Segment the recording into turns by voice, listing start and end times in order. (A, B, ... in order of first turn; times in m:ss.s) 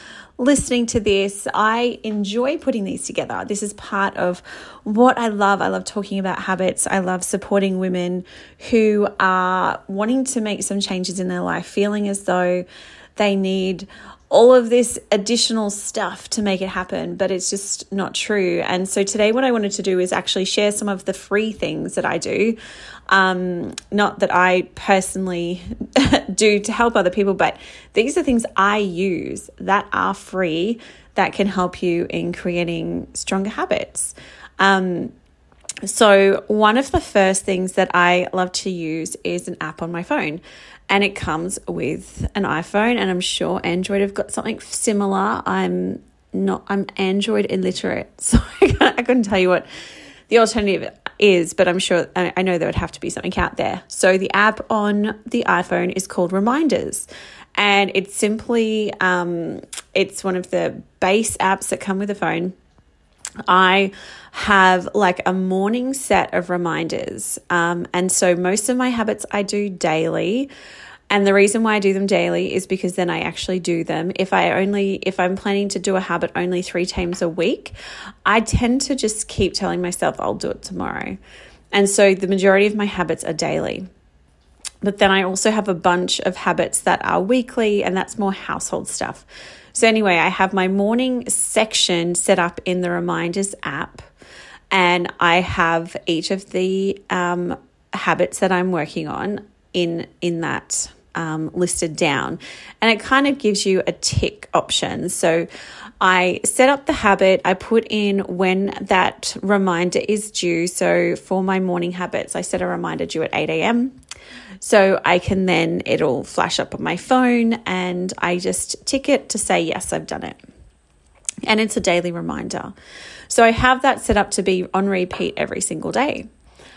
0:00.4-0:12.6 A
0:13.2-0:22.6 A
0:23.1-0:35.1 A
0:35.8-0:49.6 A
0:50.3-1:02.5 A
1:03.5-1:10.5 A
1:11.1-1:21.2 A
1:21.7-1:23.9 A
1:24.8-1:34.1 A
1:34.7-1:45.5 A
1:46.0-1:53.9 A
1:54.6-2:00.4 A
2:01.4-2:02.7 A
2:03.3-2:06.3 A